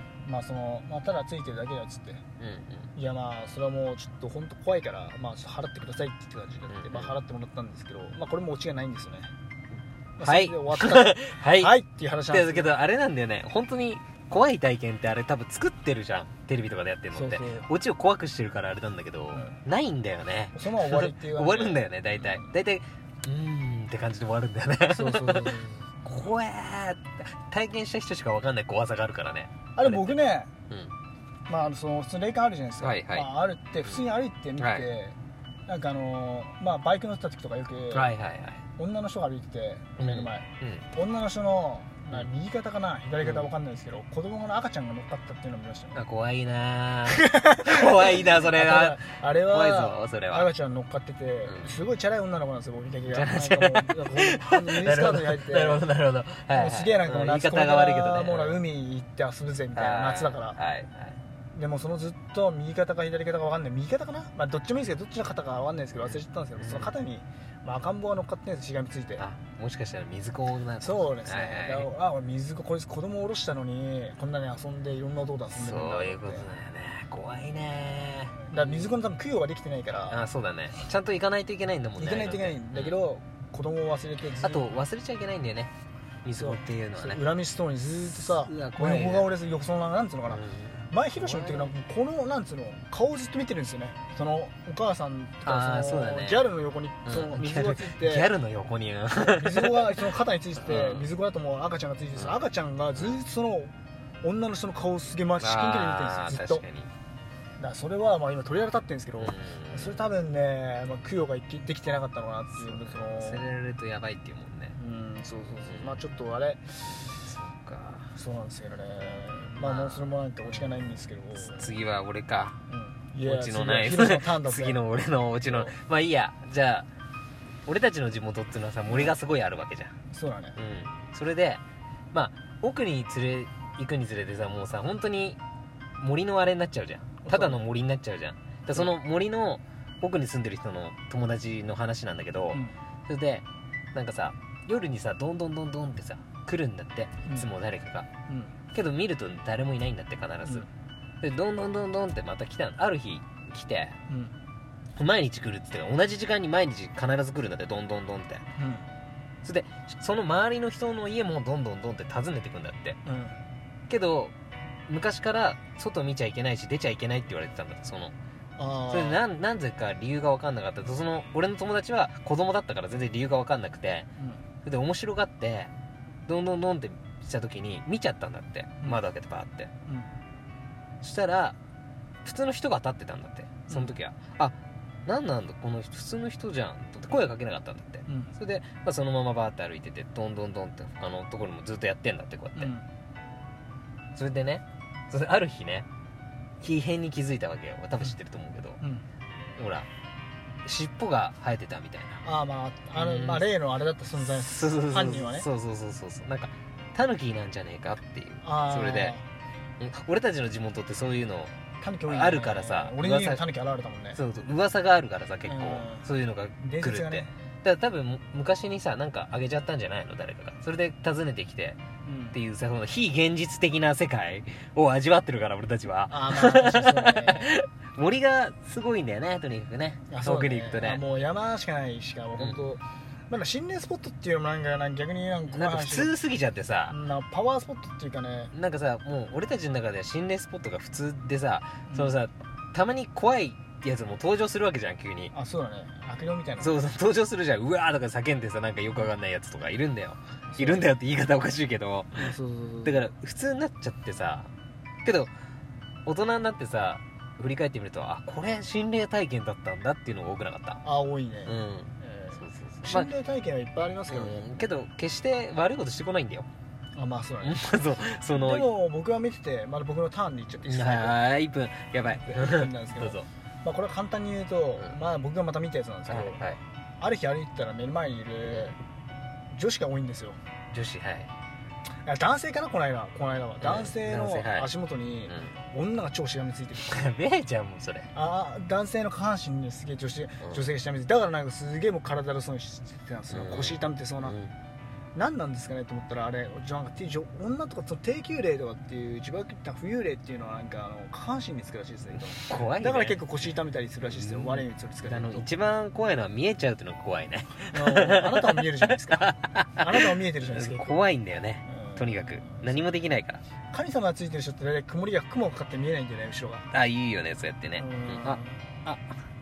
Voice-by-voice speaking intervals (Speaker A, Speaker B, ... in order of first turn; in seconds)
Speaker A: 0.2-2.2, 3.0-9.3, 10.2-12.7, 17.1-17.7, 20.5-22.5, 24.9-25.9, 29.8-30.5, 31.5-35.2, 35.7-38.1, 38.8-46.0, 47.1-55.8, 56.5-60.6, 61.5-69.2, 70.8-76.5, 78.5-80.2, 82.0-84.7, 86.4-98.3, 99.2-103.7, 104.2-106.6, 107.6-113.5, 114.8-117.1, 118.2-121.8, 122.7-124.8, 125.5-125.7, 128.9-129.2, 130.1-130.6, 137.2-137.6, 148.3-148.5, 154.1-154.3, 158.6-158.9, 163.1-163.4, 168.6-169.2, 183.7-183.9, 188.1-188.3, 192.6-192.9, 202.2-205.5, 208.4-209.2, 211.8-214.2, 215.4-217.3, 222.1-222.4, 226.1-227.5, 230.1-236.1, 236.9-238.5, 241.9-242.2, 245.3-246.8, 250.5-250.9, 252.2-253.0, 260.8-264.6, 267.0-267.6, 268.3-271.1, 272.2-276.4, 277.0-278.8, 279.5-280.4, 282.1-287.1, 288.1-294.4, 295.1-305.5, 307.7-311.0, 311.7-312.8, 313.7-316.7, 317.8-318.6
Speaker B: 2.4-2.9, 6.7-7.1, 10.2-11.7, 12.3-30.1, 32.8-33.3, 34.6-34.9, 37.9-38.6, 40.0-40.9, 43.2-43.5, 46.0-50.5, 51.5-51.8, 53.1-58.6, 59.8-61.2, 66.0-66.9, 69.2-71.9, 75.5-78.9, 80.1-83.0, 84.4-85.7, 86.2-87.2, 88.0-89.3, 90.3-91.7, 95.5-96.4, 97.0-101.1, 103.0-103.2, 105.4-106.9, 109.2-110.1, 112.5-114.8, 115.7-116.0, 116.9-118.1, 119.0-122.6, 123.2-126.9, 127.7-129.9, 130.6-131.6, 132.1-135.4, 136.0-148.1, 148.7-150.7, 151.2-154.0, 155.0-158.4, 159.4-163.0, 163.9-164.3, 164.9-168.1, 168.9-174.1, 174.7-175.7, 176.3-179.7, 181.0-181.6, 182.2-192.7, 194.2-195.9, 196.6-198.8, 199.6-199.9, 200.7-202.2, 202.9-203.5, 204.2-209.2, 209.8-211.5, 212.1-213.4, 214.2-221.8, 222.3-231.0, 235.5-237.0, 238.5-245.3, 246.6-254.5, 255.1-255.3, 256.1-260.8, 261.4-263.1, 264.1-266.5, 267.4-268.7, 270.7-273.3, 276.1-276.6, 280.7-281.3, 283.6-284.7, 285.3-285.5, 286.8-288.1, 293.3-294.5, 302.1-303.5, 304.1-313.4, 316.7-319.0